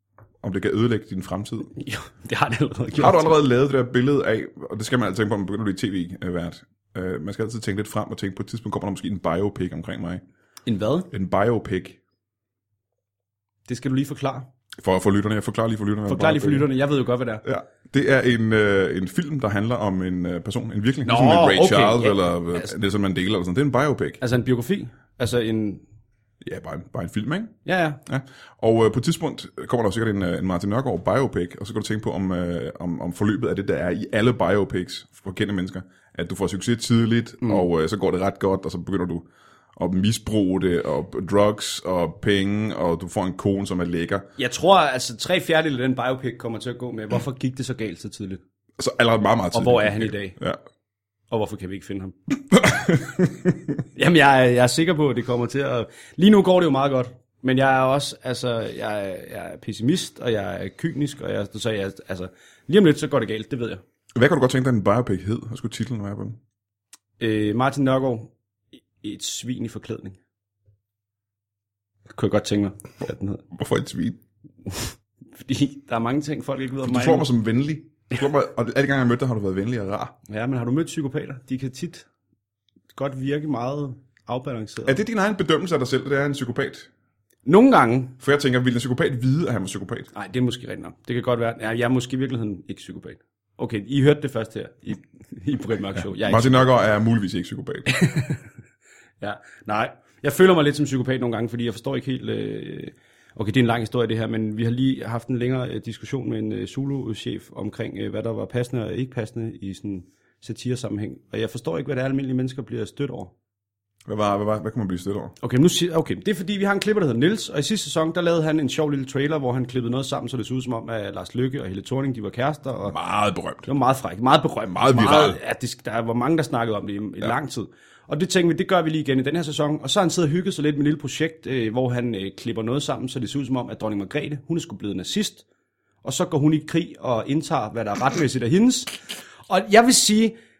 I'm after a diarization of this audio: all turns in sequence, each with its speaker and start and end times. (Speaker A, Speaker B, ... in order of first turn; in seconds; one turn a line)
Speaker A: 0.4-1.7
Speaker B: 1.7-3.4
Speaker A: 3.0-10.2
Speaker B: 10.6-11.1
Speaker A: 11.1-12.0
Speaker B: 13.7-14.5
Speaker A: 14.8-16.7
Speaker B: 16.1-17.4
Speaker A: 17.4-24.2
Speaker B: 21.0-22.8
Speaker B: 24.2-25.8
Speaker A: 26.4-44.3
Speaker B: 27.6-28.0
Speaker B: 44.4-48.4
Speaker A: 48.8-50.6
Speaker B: 49.5-50.4
Speaker B: 51.3-52.1
Speaker A: 52.5-53.6
Speaker B: 53.9-63.8
Speaker A: 64.1-66.4
Speaker B: 67.2-68.3
Speaker B: 69.0-70.2
Speaker B: 72.1-73.4
Speaker A: 73.5-74.2
Speaker B: 75.3-77.3
Speaker A: 76.8-80.1
Speaker B: 80.3-82.0
Speaker B: 82.9-85.0
Speaker A: 84.8-86.9
Speaker B: 87.4-88.2
Speaker A: 88.2-90.1
Speaker B: 90.1-96.7
Speaker A: 96.0-98.0
Speaker B: 97.9-98.5
Speaker B: 99.2-113.3
Speaker A: 114.0-115.3
Speaker B: 115.4-123.0
Speaker A: 122.9-123.7
Speaker B: 123.6-135.4
Speaker A: 124.7-125.4
Speaker B: 136.0-140.3